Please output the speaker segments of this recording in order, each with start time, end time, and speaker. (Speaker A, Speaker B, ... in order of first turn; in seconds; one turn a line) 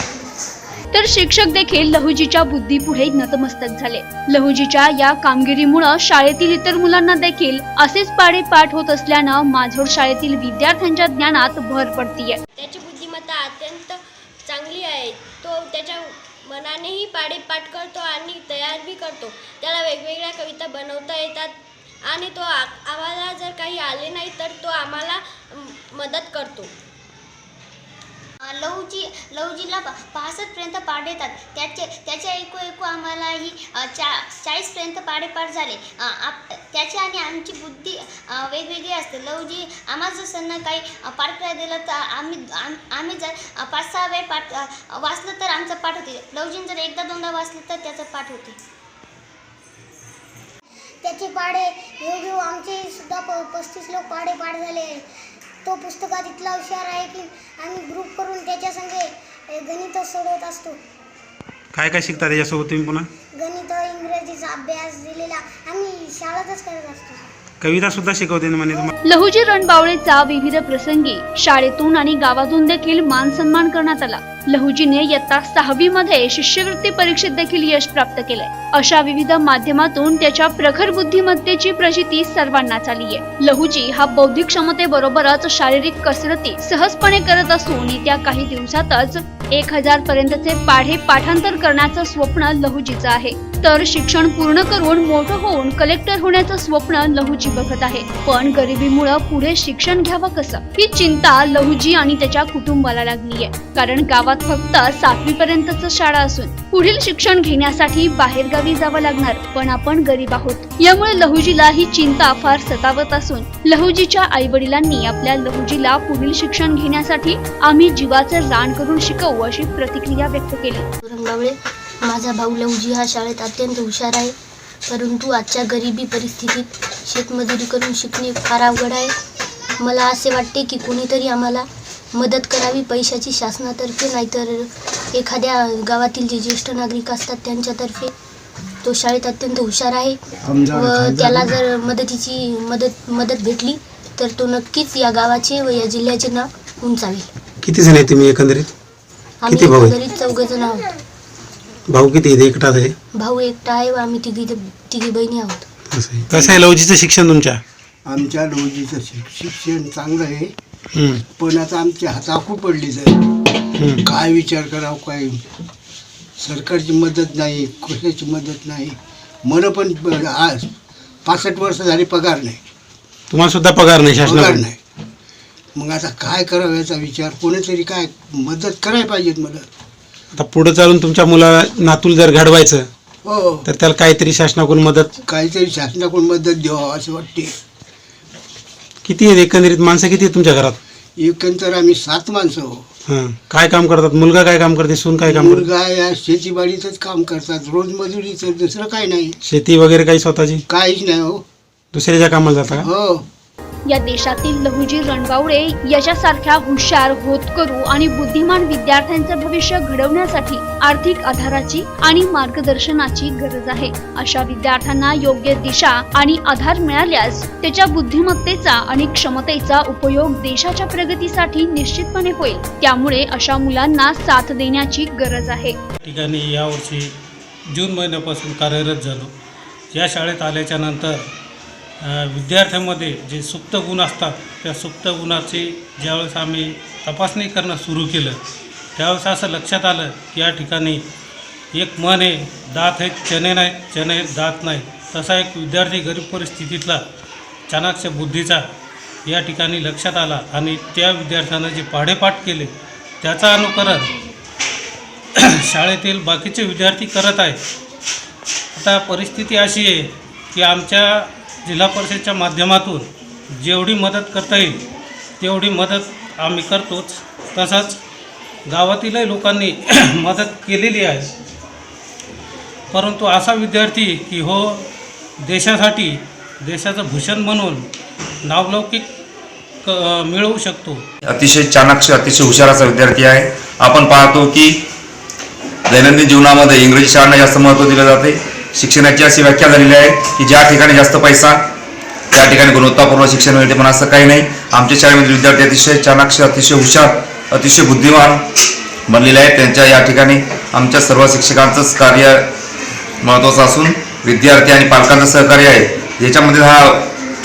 Speaker A: 0.9-12.4
Speaker B: 12.6-26.7
Speaker C: 28.4-48.6
Speaker D: 51.0-55.0
Speaker D: 55.6-60.8
Speaker E: 61.7-63.1
Speaker D: 63.3-67.2
Speaker E: 67.6-68.9
Speaker A: 69.1-120.8
Speaker F: 121.0-124.3
Speaker F: 124.9-129.1
Speaker F: 129.8-138.1
Speaker F: 138.8-140.2
Speaker G: 140.4-141.5
Speaker F: 140.7-147.3
Speaker E: 147.6-148.7
Speaker F: 149.4-150.9
Speaker E: 149.5-149.9
Speaker E: 151.9-152.9
Speaker F: 153.1-155.7
Speaker E: 155.9-157.6
Speaker G: 158.1-160.5
Speaker E: 160.9-161.2
Speaker G: 161.3-163.2
Speaker G: 164.0-165.4
Speaker G: 166.4-170.7
Speaker G: 171.2-172.6
Speaker E: 173.3-174.6
Speaker G: 174.2-174.8
Speaker G: 175.8-179.7
Speaker E: 180.4-182.9
Speaker G: 183.2-183.7
Speaker E: 183.7-185.2
Speaker G: 185.2-187.5
Speaker E: 189.0-190.8
Speaker G: 191.2-192.8
Speaker E: 193.1-195.7
Speaker G: 195.2-199.3
Speaker E: 199.4-200.6
Speaker G: 200.7-201.4
Speaker E: 201.9-202.9
Speaker G: 202.8-203.2
Speaker A: 203.9-225.8
Speaker H: 226.0-227.1
Speaker H: 227.7-229.3
Speaker H: 229.9-231.3
Speaker H: 232.0-238.4
Speaker H: 238.9-241.0
Speaker H: 241.7-247.0
Speaker H: 247.7-248.7
Speaker H: 249.2-254.1
Speaker H: 255.4-257.6
Speaker H: 258.7-264.8
Speaker H: 265.4-268.0
Speaker H: 268.7-271.3
Speaker H: 272.9-274.8
Speaker H: 275.4-277.9
Speaker H: 278.5-279.1
Speaker H: 279.8-281.0
Speaker I: 281.3-284.7
Speaker I: 285.9-291.6
Speaker I: 292.3-298.4
Speaker I: 299.1-302.4
Speaker I: 303.2-307.0